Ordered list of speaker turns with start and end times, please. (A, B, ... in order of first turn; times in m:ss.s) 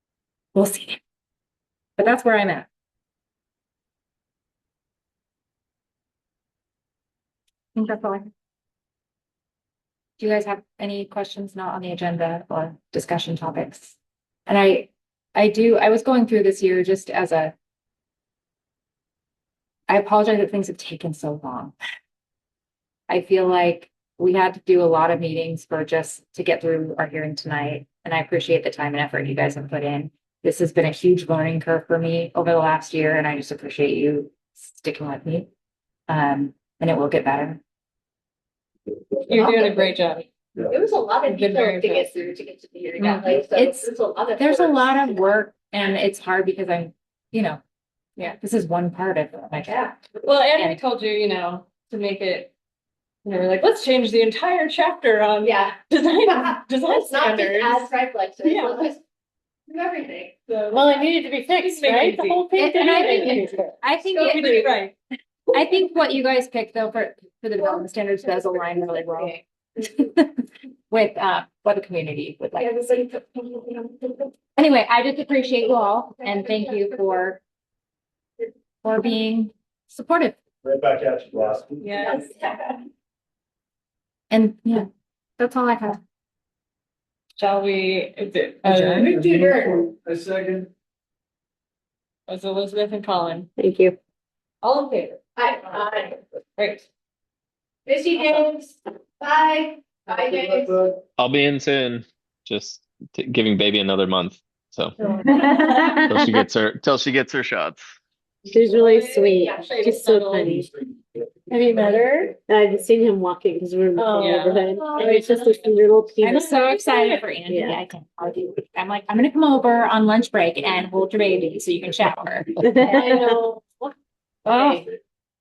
0:00.5-0:01.0 A
0:02.0-0:02.7 A
0:07.8-0:08.3 A
0:10.2-0:14.0 A
0:14.5-0:17.5 A
0:19.9-0:21.7 A
0:23.1-0:35.5 A
0:36.1-0:37.6 A
0:39.2-0:40.2 B
0:39.3-0:39.9 C
0:40.6-0:45.2 C
0:41.2-0:42.1 B
0:43.0-0:47.6 A
0:43.0-0:43.2 B
0:48.2-0:49.8 A
0:49.7-0:49.9 C
0:50.2-0:52.5 B
0:50.5-0:50.8 A
0:53.2-0:57.9 B
0:55.4-0:59.0 C
0:58.4-0:58.8 B
0:59.7-1:00.3 C
1:00.5-1:03.3 B
1:00.7-1:03.7 D
1:02.6-1:04.7 A
1:04.2-1:04.9 B
1:05.5-1:12.9 A
1:08.6-1:09.4 C
1:12.6-1:14.3 C
1:14.6-1:17.4 A
1:16.4-1:16.6 C
1:18.8-1:20.4 A
1:20.6-1:22.0 E
1:21.8-1:22.3 B
1:22.0-1:22.6 C
1:24.3-1:24.9 A
1:25.4-1:26.0 A
1:27.4-1:29.2 B
1:28.6-1:29.9 C
1:28.8-1:30.7 E
1:32.3-1:33.5 B
1:33.6-1:34.0 D
1:34.6-1:35.2 B
1:35.4-1:36.2 C
1:36.6-1:36.8 B
1:37.9-1:40.9 C
1:41.2-1:45.0 F
1:45.0-1:46.0 B
1:45.2-1:46.4 D
1:46.0-1:47.9 F
1:48.4-1:50.7 D
1:48.6-1:50.6 B
1:49.4-1:50.0 C
1:51.5-1:56.6 D
1:54.0-1:55.1 B
1:54.7-1:55.4 C
1:56.2-2:03.4 A
1:56.6-1:57.2 B
1:57.5-1:57.8 D
2:02.6-2:03.9 D
2:04.4-2:04.9 A
2:04.5-2:04.8 D